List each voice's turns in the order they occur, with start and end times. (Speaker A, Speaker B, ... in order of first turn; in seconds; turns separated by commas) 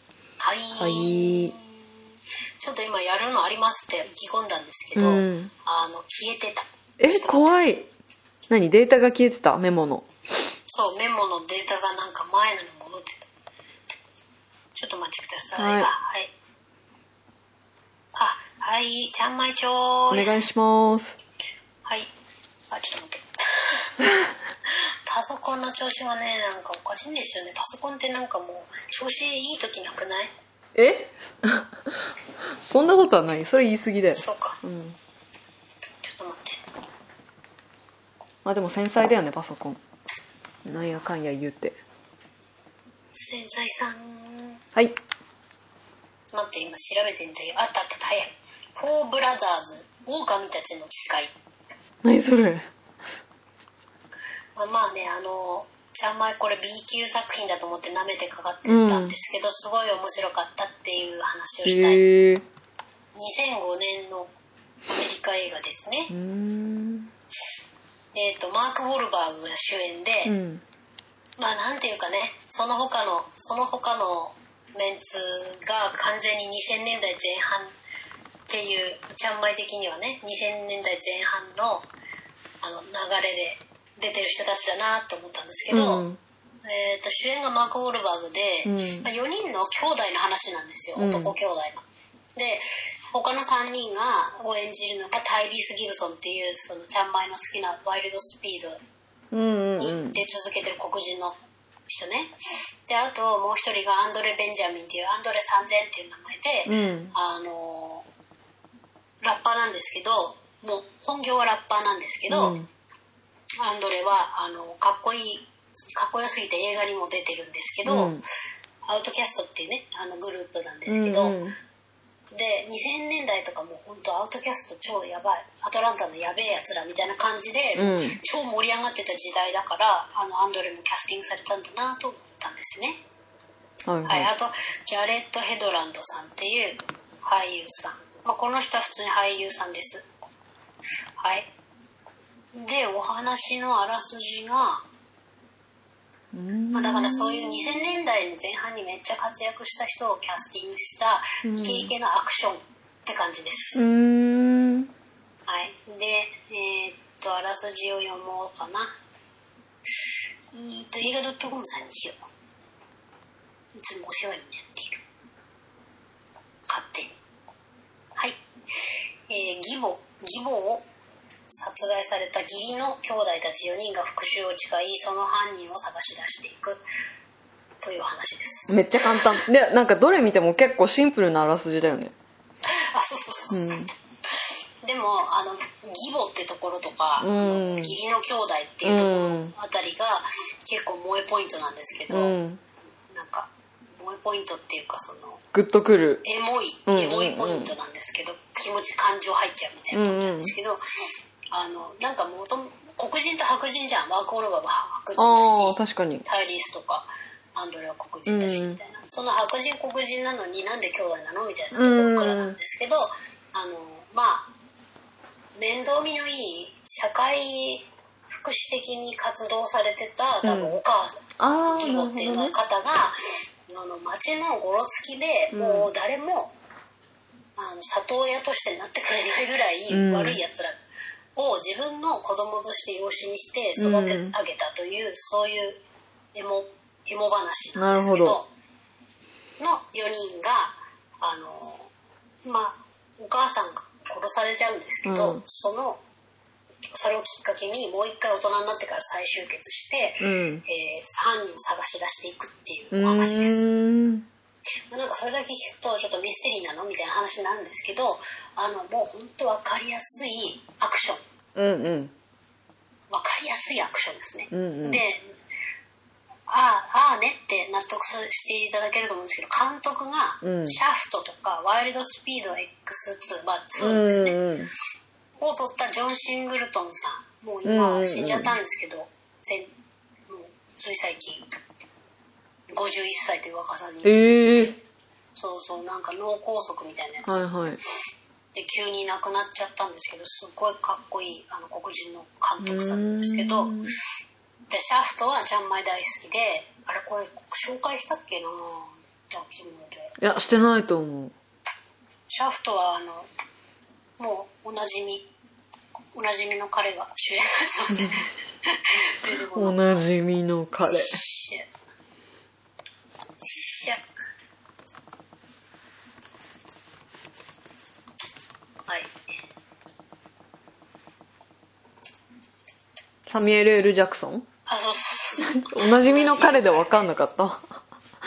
Speaker A: 0.4-1.7, Speaker B: 0.8-1.5, Speaker A: 2.6-7.5, Speaker B: 5.0-5.5, Speaker B: 7.0-7.9, Speaker B: 8.5-10.1, Speaker A: 10.7-13.2, Speaker A: 14.7-16.3, Speaker B: 15.6-15.9, Speaker A: 18.1-20.4, Speaker B: 20.1-21.2, Speaker A: 21.8-22.1, Speaker A: 22.7-23.9, Speaker A: 25.1-30.3, Speaker B: 30.8-31.9, Speaker B: 32.6-35.0, Speaker A: 34.1-34.6, Speaker A: 36.0-36.6, Speaker B: 38.4-39.8, Speaker B: 40.6-41.8, Speaker A: 43.1-44.6, Speaker A: 46.3-51.3, Speaker B: 52.0-52.7, Speaker A: 54.5-62.0, Speaker B: 58.6-59.1, Speaker B: 61.6-62.4, Speaker A: 63.1-64.3, Speaker A: 64.9-66.1, Speaker B: 66.1-67.1, Speaker A: 68.1-70.3, Speaker B: 70.2-70.6, Speaker A: 71.4-77.7, Speaker A: 78.5-81.9, Speaker A: 82.6-86.0, Speaker B: 85.7-86.2, Speaker A: 86.6-91.8, Speaker B: 88.6-89.0, Speaker B: 91.0-91.3, Speaker A: 92.3-98.8, Speaker B: 99.3-100.2, Speaker A: 99.8-101.3, Speaker A: 101.9-102.3, Speaker A: 102.8-108.0, Speaker B: 106.7-107.1, Speaker A: 109.2-112.6, Speaker B: 112.3-112.7, Speaker A: 113.6-118.2, Speaker B: 117.8-118.2, Speaker A: 118.8-121.3, Speaker B: 120.9-121.5, Speaker A: 122.3-133.0, Speaker B: 127.8-128.2, Speaker B: 133.9-134.3, Speaker A: 134.1-140.0, Speaker A: 141.2-141.5, Speaker A: 142.5-144.8, Speaker B: 146.3-147.7, Speaker A: 146.7-153.9, Speaker B: 151.4-151.9, Speaker B: 153.7-154.9, Speaker A: 155.5-158.9, Speaker A: 160.5-162.2, Speaker A: 163.7-165.0, Speaker A: 166.7-167.1, Speaker A: 168.2-168.4, Speaker A: 169.3-170.8, Speaker A: 171.5-176.8, Speaker A: 177.8-179.4, Speaker B: 178.7-182.1, Speaker A: 182.7-183.8, Speaker B: 183.5-183.9, Speaker A: 184.4-192.4, Speaker B: 187.2-187.9, Speaker B: 188.8-189.5, Speaker B: 192.1-192.6, Speaker A: 193.1-195.4, Speaker B: 195.5-196.2, Speaker A: 196.2-200.8, Speaker B: 196.9-197.7, Speaker B: 199.9-200.5, Speaker A: 201.5-214.5, Speaker B: 205.2-206.2, Speaker B: 208.3-208.8, Speaker B: 211.7-212.5, Speaker A: 215.6-223.2, Speaker B: 220.4-220.8, Speaker B: 221.4-222.5, Speaker A: 223.7-226.5, Speaker B: 225.5-225.9, Speaker A: 227.6-230.8, Speaker B: 229.9-230.4, Speaker A: 231.3-235.8, Speaker B: 233.8-234.3, Speaker A: 236.3-238.5, Speaker B: 237.8-238.4, Speaker A: 239.6-241.9, Speaker A: 242.4-246.0, Speaker B: 245.0-245.4, Speaker A: 246.9-253.7, Speaker B: 250.2-250.6, Speaker B: 252.9-254.2, Speaker A: 254.9-261.2, Speaker B: 261.6-262.1, Speaker A: 263.1-265.2, Speaker B: 264.5-265.0, Speaker A: 266.5-274.4, Speaker B: 270.4-270.8, Speaker B: 273.8-274.7, Speaker A: 275.4-279.7, Speaker B: 277.6-278.5, Speaker A: 280.3-281.5, Speaker A: 282.7-284.8, Speaker B: 284.0-284.8, Speaker A: 285.4-287.8, Speaker B: 287.3-287.8, Speaker A: 288.5-293.7, Speaker B: 292.6-293.9, Speaker A: 294.7-300.1, Speaker B: 300.2-301.3, Speaker A: 302.3-303.3, Speaker A: 304.2-305.3, Speaker A: 306.1-310.1, Speaker B: 309.6-311.1, Speaker A: 310.8-311.6, Speaker A: 313.4-314.0, Speaker A: 318.9-319.1, Speaker B: 323.3-324.4, Speaker A: 324.6-326.9, Speaker B: 325.4-327.6